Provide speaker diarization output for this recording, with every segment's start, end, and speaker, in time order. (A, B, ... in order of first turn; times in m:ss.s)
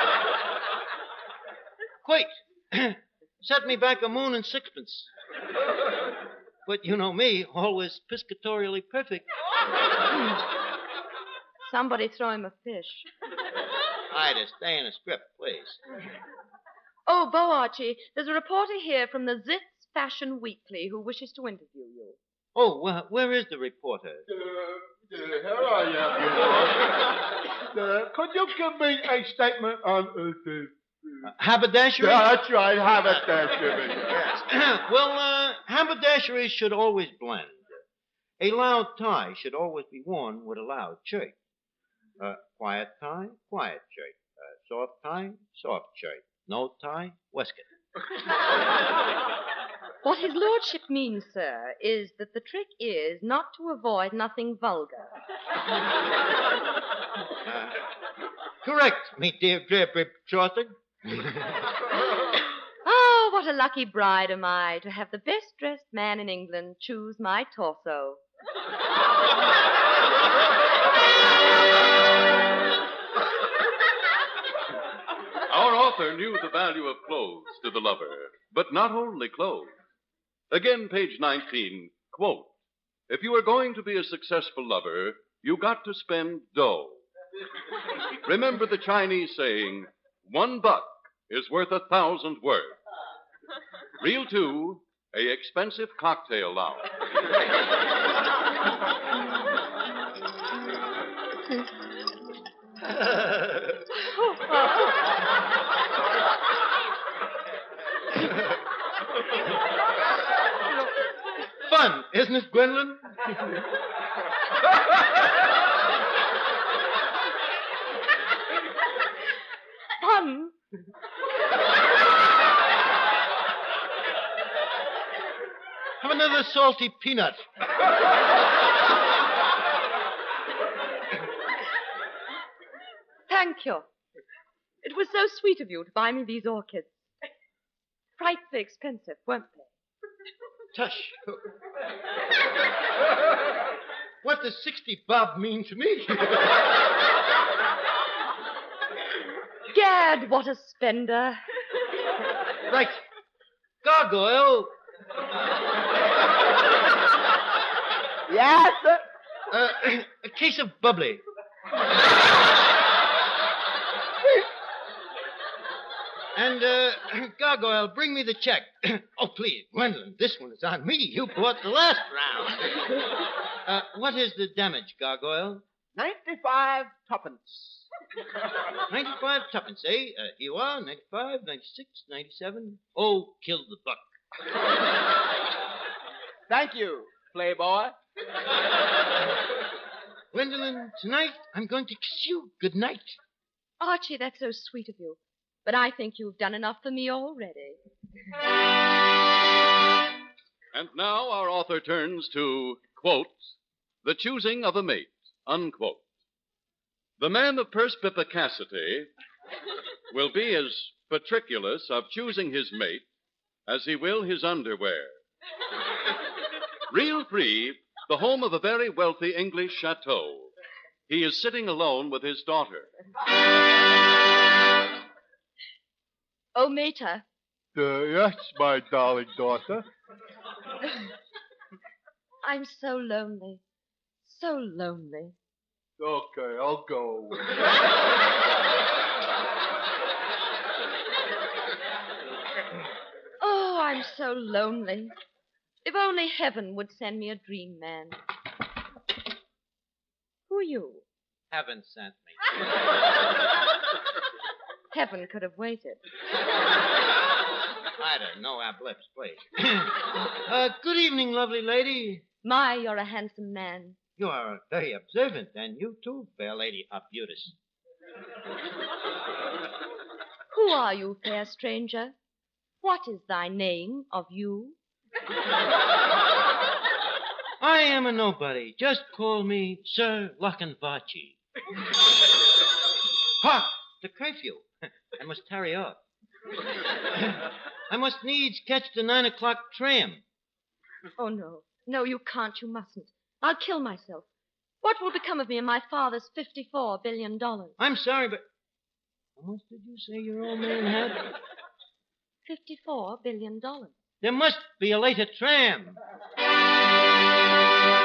0:02.0-0:05.1 A
0:06.6-0:09.2 A
0:11.7-0:13.1 B
0:14.1-0:15.8 A
0:17.1-0:22.2 B
0:22.5-0:24.2 A
0:24.3-0:27.0 C
0:27.7-0:31.3 C
0:31.2-0:32.4 A
0:32.0-0:34.2 C
0:33.0-0:33.3 A
0:34.1-0:37.6 A
0:38.4-0:41.3 A
0:42.2-0:47.6 A
0:50.0-0:55.1 B
0:57.4-0:57.8 A
0:58.6-1:01.6 A
1:02.8-1:08.2 B
1:15.5-1:19.7 D
1:20.5-1:22.5 D
1:23.1-1:27.0 D
1:28.2-1:32.8 D
1:34.0-1:36.9 D
1:42.8-1:43.8 A
1:51.6-1:53.4 A
2:00.0-2:00.5 B
2:06.0-2:07.4 A
2:13.3-2:13.8 B
2:14.8-2:17.0 B
2:18.2-2:19.7 B
2:20.7-2:21.5 A
2:24.2-2:26.6 A
2:29.7-2:31.4 B
2:32.7-2:33.0 A
2:33.8-2:34.7 A
2:38.3-2:39.0 E
2:39.5-2:41.2 A
2:46.3-2:52.8 A
2:53.6-2:55.6 A
2:56.0-2:57.8 E
2:58.9-3:04.0 A
3:06.5-3:08.0 E
3:10.3-3:13.2 A
3:13.8-3:17.8 B
3:20.7-3:26.0 D
3:27.2-3:29.1 D
3:30.1-3:33.0 D
3:33.7-3:35.2 D
3:36.9-3:40.5 D
3:41.1-3:42.9 D
3:46.5-3:47.2 B
3:47.7-3:49.8 C
3:52.4-3:53.6 B
3:54.2-3:55.3 B
3:56.0-3:57.6 C
4:03.4-4:05.1 B
4:05.8-4:08.2 B
4:10.5-4:11.0 B
4:11.5-4:12.4 A
4:14.9-4:16.0 B
4:18.0-4:22.2 A
4:22.4-4:24.0 B
4:24.2-4:27.5 A
4:30.5-4:32.1 B
4:32.8-4:34.8 B
4:37.6-4:41.4 A
4:43.4-4:46.0 A
4:47.1-4:50.2 A
4:51.2-4:54.3 B
4:54.8-4:57.7 B
4:57.8-4:58.4 A
4:59.4-5:01.3 A
5:02.4-5:03.9 B
5:04.2-5:06.0 A